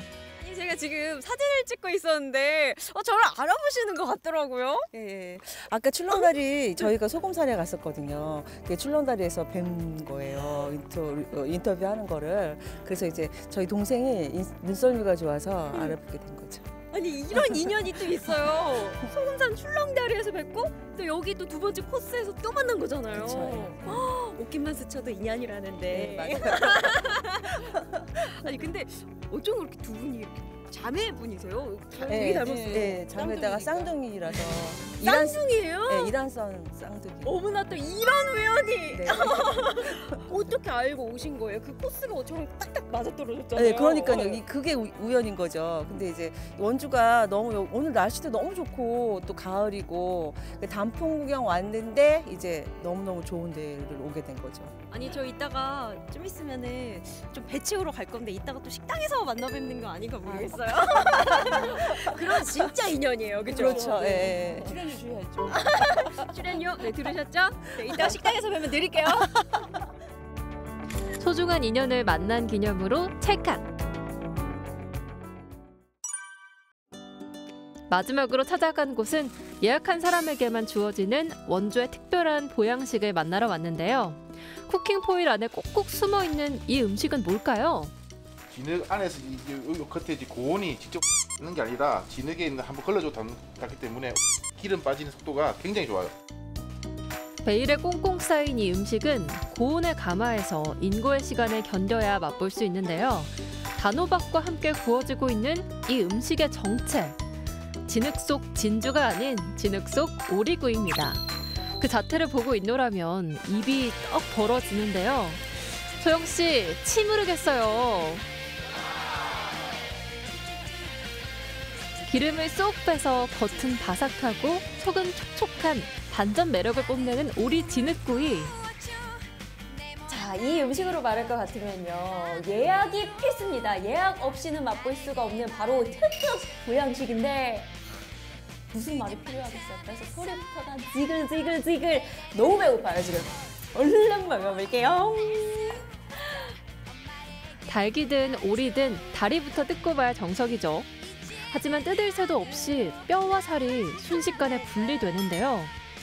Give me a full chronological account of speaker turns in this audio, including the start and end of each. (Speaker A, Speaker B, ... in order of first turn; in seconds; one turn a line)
Speaker A: 0.4-5.1
Speaker B: 5.0-16.7
Speaker A: 6.1-6.9
Speaker A: 15.7-16.0
Speaker A: 16.9-36.1
Speaker B: 23.1-24.1
Speaker B: 25.9-27.0
Speaker B: 32.0-37.4
Speaker A: 37.2-44.4
Speaker B: 38.9-40.1
Speaker B: 43.5-54.7
Speaker A: 54.9-69.6
Speaker B: 61.1-62.2
Speaker B: 63.5-64.8
Speaker C: 71.2-73.7
Speaker C: 77.9-87.9
Speaker D: 88.5-96.1
Speaker C: 97.4-107.2
Speaker C: 107.9-111.2
Speaker C: 111.8-118.2
Speaker C: 122.0-128.6
Speaker A: 130.1-137.7
Speaker A: 138.7-145.9
Speaker C: 147.7-150.9
Speaker C: 151.5-155.7